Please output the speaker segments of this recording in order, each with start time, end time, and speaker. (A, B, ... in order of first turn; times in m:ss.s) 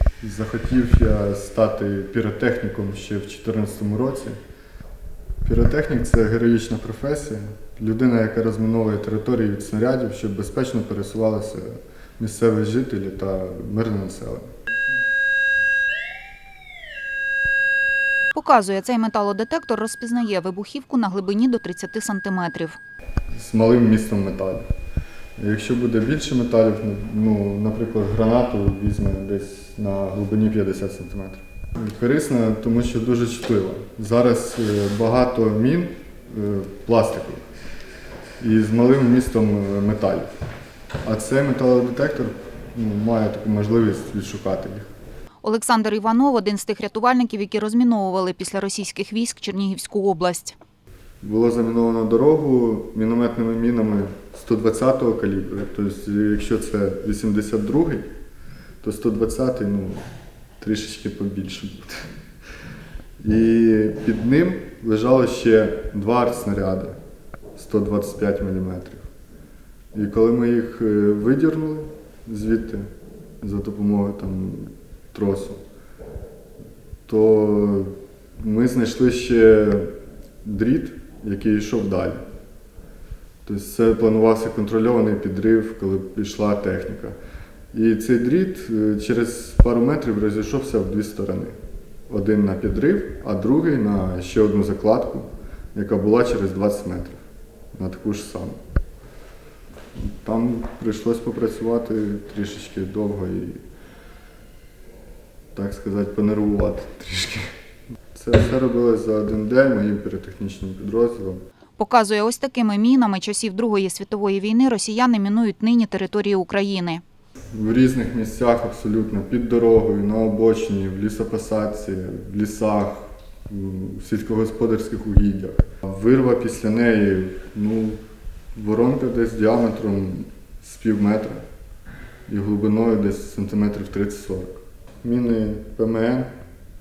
0:00.2-0:04.4 A
0:05.4-0:14.5 A
0:18.3-0:22.8 B
0:23.3-0:24.7 A
0:25.4-0:37.4 A
0:38.4-0:40.3 A
0:41.0-0:44.9 A
0:45.4-0:50.6 B
0:51.2-0:58.1 A
0:58.8-1:00.0 A
1:00.6-1:02.1 A
1:03.2-1:07.0 A
1:07.5-1:09.0 A
1:09.9-1:12.9 A
1:13.4-1:15.6 A
1:17.0-1:19.9 A
1:20.4-1:22.2 A
1:23.4-1:27.2 A
1:27.7-1:31.5 A
1:32.1-1:37.2 A
1:37.7-1:38.6 A
1:39.9-1:43.6 A
1:45.5-1:47.5 A
1:48.1-1:51.4 A
1:51.8-1:57.0 B
1:57.5-2:08.0 A
2:08.5-2:11.4 A
2:12.3-2:16.3 A